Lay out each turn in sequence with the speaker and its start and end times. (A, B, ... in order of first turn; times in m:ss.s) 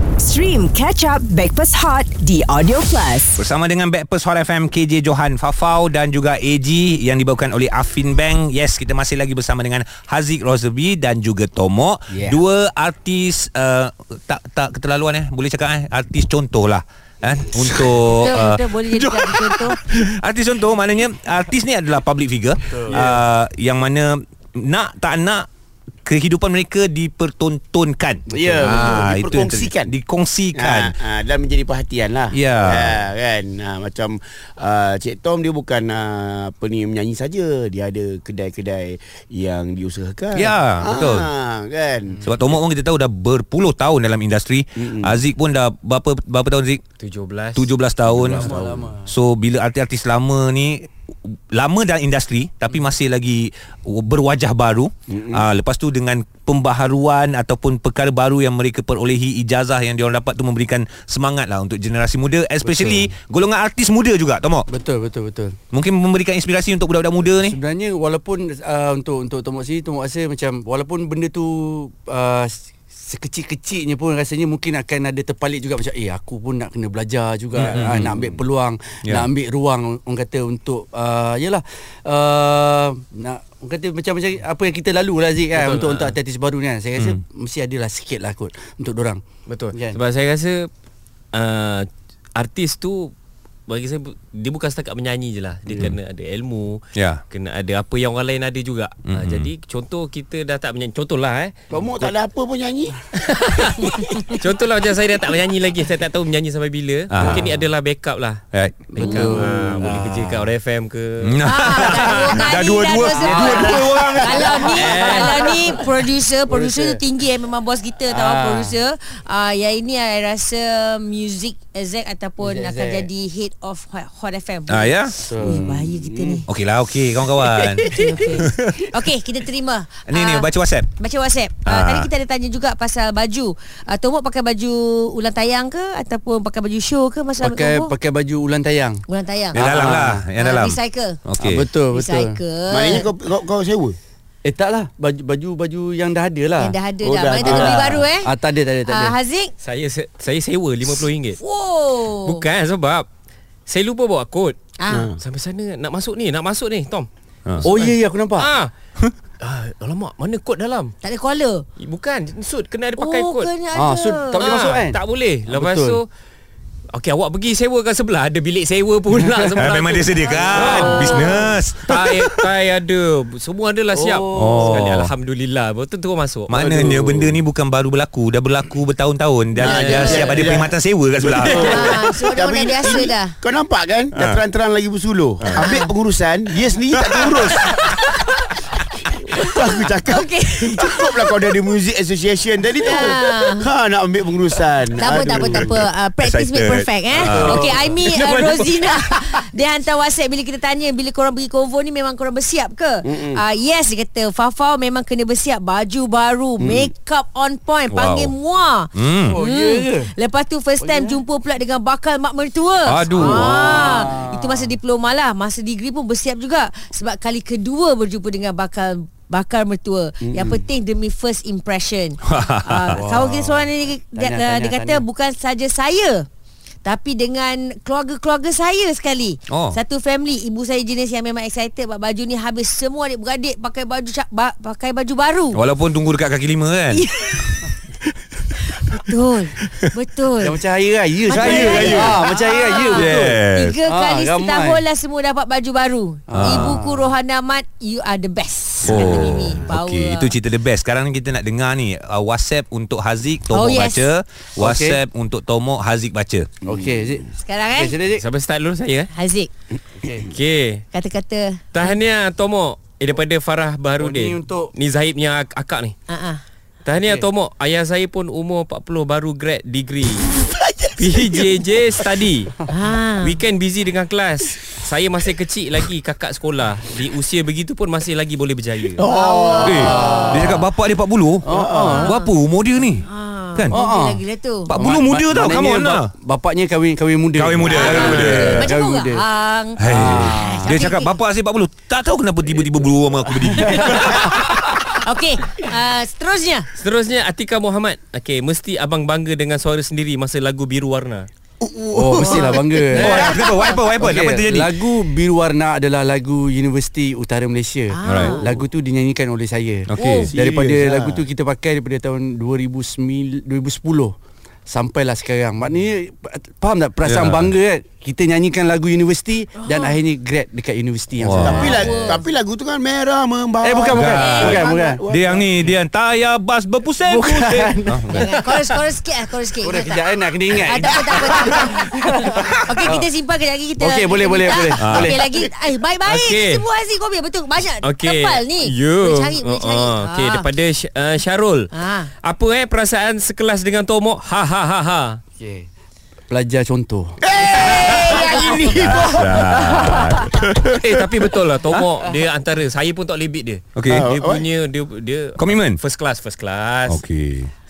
0:00.2-0:03.4 A
0:03.4-0:25.5 B
0:18.1-0:19.8 C
0:22.7-0:23.2 D
0:26.0-0:30.9 B
0:28.3-0:29.0 D
0:28.3-0:29.9 E
0:30.5-0:42.3 E
0:32.3-0:33.0 B
0:40.3-0:41.3 B
0:42.2-0:46.8 B
0:44.8-0:45.2 E
0:47.0-0:47.7 F
0:47.5-1:04.7 B
0:48.2-0:48.8 E
0:48.2-0:49.1 D
0:55.1-0:55.4 E
1:02.6-1:03.1 D
1:04.7-1:05.6 D
1:05.7-1:07.6 B
1:07.4-1:29.2 D
1:17.6-1:18.2 B
1:17.7-1:18.3 E
1:25.5-1:26.2 F
1:29.5-1:30.7 F
1:29.7-1:30.0 D
1:31.3-1:33.1 F
1:33.7-1:41.6 F
1:36.9-1:37.2 B
1:39.1-1:39.5 B
1:41.7-1:43.0 E
1:43.2-1:48.4 F
1:47.1-1:47.5 B
1:48.5-1:49.4 B
1:49.0-1:51.4 F
1:49.0-1:50.3 D
1:51.2-1:54.5 B
1:51.4-2:06.5 C
1:53.2-1:55.9 D
1:54.8-1:55.5 F
1:56.5-1:57.0 D
1:58.1-1:58.8 D
2:02.4-2:03.1 D
2:04.7-2:05.1 B
2:05.2-2:06.0 D
2:06.0-2:06.4 E
2:06.5-2:08.9 B
2:07.8-2:17.9 C
2:10.1-2:10.9 B
2:11.6-2:12.1 B
2:17.4-2:19.0 D
2:19.1-2:19.6 C
2:19.5-2:21.6 B
2:19.5-2:20.2 D
2:20.4-2:21.2 C
2:21.4-2:22.4 D
2:21.9-2:23.1 C
2:22.7-2:24.0 E
2:24.4-2:26.8 D
2:26.6-2:28.3 C
2:27.0-2:28.0 E
2:27.4-2:29.2 D
2:28.8-2:29.5 C
2:29.6-2:31.4 F
2:30.9-2:32.4 C
2:32.2-2:33.0 F
2:33.7-2:34.6 F
2:34.8-2:35.1 C
2:34.9-2:35.2 E
2:35.2-2:37.1 F
2:37.6-2:38.7 F
2:37.6-2:38.5 D
2:39.4-2:40.9 F
2:41.0-2:41.6 C
2:41.8-2:43.5 F
2:43.0-2:44.4 C
2:43.7-2:46.0 D
2:44.3-2:46.1 F
2:46.9-2:51.3 F
2:49.6-2:52.4 B
2:50.5-2:51.5 C
2:51.8-2:56.6 F
2:53.9-2:54.8 D
2:54.3-2:55.1 B
2:56.5-3:01.9 B
2:56.6-2:57.2 E
2:59.6-3:07.8 E
2:59.6-3:00.4 C
2:59.7-3:00.2 F
3:01.5-3:03.3 C
3:04.1-3:04.4 B
3:05.6-3:05.9 C
3:06.9-3:07.7 B
3:09.1-3:15.8 E
3:09.3-3:11.3 C
3:12.8-3:13.7 C
3:15.0-3:46.2 C
3:16.2-3:17.7 B
3:17.2-3:18.0 D
3:18.0-3:18.9 F
3:23.0-3:23.4 E
3:26.6-3:26.9 E
3:27.9-3:28.3 B
3:28.9-3:29.4 B
3:29.3-3:30.1 D
3:30.8-3:31.2 D
3:32.8-3:34.0 B
3:33.1-3:34.7 D
3:40.2-3:40.6 E
3:42.2-3:43.0 B
3:42.9-3:45.0 D
3:46.8-3:55.6 C
3:49.5-3:49.8 B
3:55.5-3:57.0 B
3:56.9-3:57.6 C
3:58.7-4:00.6 C
4:00.4-4:04.8 D
4:01.2-4:10.3 C
4:01.3-4:02.3 B
4:02.9-4:03.8 B
4:06.3-4:07.1 D
4:06.3-4:06.8 B
4:08.8-4:16.5 B
4:13.5-4:14.1 C
4:14.6-4:15.0 D
4:16.6-4:18.2 D
4:16.7-4:17.0 E
4:17.4-4:18.0 C
4:18.1-4:19.1 F
4:19.1-4:19.5 C
4:20.0-4:20.3 D
4:20.3-4:20.8 F
4:20.9-4:21.9 C
4:21.7-4:26.0 F
4:24.0-4:24.7 D
4:26.1-4:26.4 C
4:26.8-4:30.3 F
4:27.0-4:27.2 D
4:30.3-4:31.5 E
4:31.0-4:32.6 F
4:32.7-4:33.4 C
4:33.2-4:39.0 F
4:39.0-4:40.3 E
4:39.0-4:40.6 C
4:39.6-4:41.4 B
4:39.7-4:40.6 D
4:41.4-4:42.1 D
4:41.5-4:42.0 E
4:41.7-4:42.3 C
4:42.0-4:43.8 B
4:43.0-4:44.7 C
4:43.7-4:44.2 D
4:44.7-4:46.1 B
4:44.8-4:49.2 D
4:47.3-4:48.6 B
4:47.7-4:51.1 C
4:49.8-4:54.6 B
4:49.8-4:50.7 D
4:53.4-4:54.0 D
4:55.0-4:56.7 C
4:56.8-5:01.3 F
5:01.6-5:03.1 E
5:01.9-5:03.4 D
5:02.2-5:03.8 C
5:02.9-5:04.8 B
5:04.0-5:14.1 D
5:07.9-5:08.5 C
5:08.0-5:08.4 B
5:09.9-5:10.3 B
5:10.0-5:10.3 C
5:10.3-5:11.2 E
5:14.7-5:21.9 D
5:17.0-5:17.5 B
5:19.6-5:20.0 C
5:21.2-5:21.8 B
5:21.3-5:25.7 E
5:21.4-5:22.2 C
5:23.6-5:25.0 D
5:23.9-5:28.2 B
5:24.1-5:24.7 C
5:27.0-5:28.2 D
5:28.1-5:40.4 C
5:29.6-5:33.1 D
5:33.8-5:35.2 D
5:34.8-5:35.1 B
5:36.0-5:36.6 F
5:37.8-5:41.7 F
5:41.7-5:42.1 C
5:42.2-5:45.2 F
5:45.4-5:45.7 D
5:46.3-5:47.2 D
5:47.2-5:50.0 E
5:47.8-5:48.9 C
5:48.7-5:51.0 B
5:49.6-5:50.2 D
5:50.8-5:57.0 F
5:53.8-5:54.1 B
5:53.9-5:54.4 E
5:55.4-5:55.8 B
5:56.9-5:57.5 B